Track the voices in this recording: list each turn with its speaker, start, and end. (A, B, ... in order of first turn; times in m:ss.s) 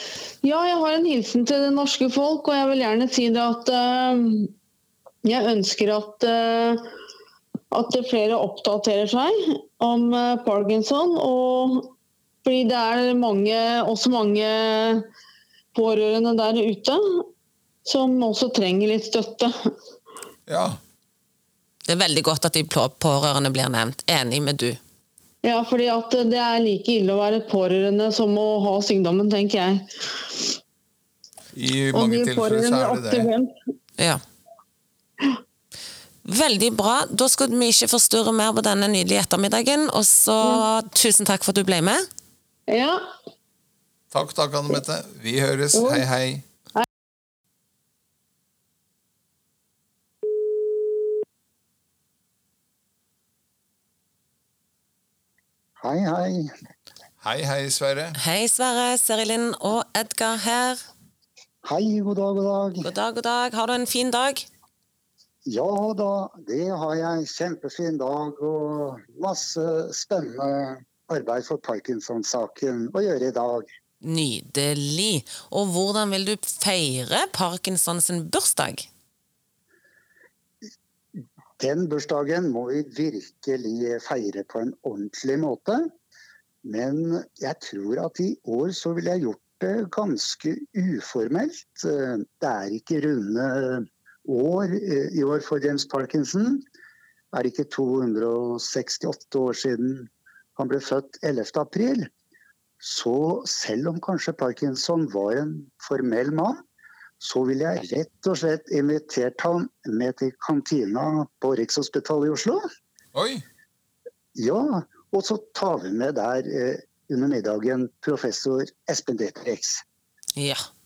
0:00.4-0:04.5 A
0:05.2-0:06.9 A
0:07.7-0:11.9 A
0:12.4-0:15.1 A
0:15.7-0:17.3 A
0:17.9-0:19.5 A
0:20.5-0:20.8 B
0:21.9-0:24.8 C
0:25.4-0:29.9 A
0:31.5-0:33.3 B
0:31.9-0:33.5 A
0:36.2-0:42.0 C
0:42.7-0:43.1 A
0:44.1-0:46.4 B
0:45.8-0:46.0 A
0:55.8-0:56.5 D
0:57.2-0:58.2 B
0:58.2-1:00.8 C
1:01.6-1:02.9 D
1:02.8-1:04.5 C
1:05.5-1:13.7 D
1:14.0-1:18.9 C
1:21.6-1:25.9 D
1:26.6-1:36.6 D
1:37.3-1:42.1 D
1:42.8-1:46.6 D
1:47.2-1:52.6 D
1:53.1-1:53.4 B
1:54.4-1:59.8 D
2:00.4-2:00.6 C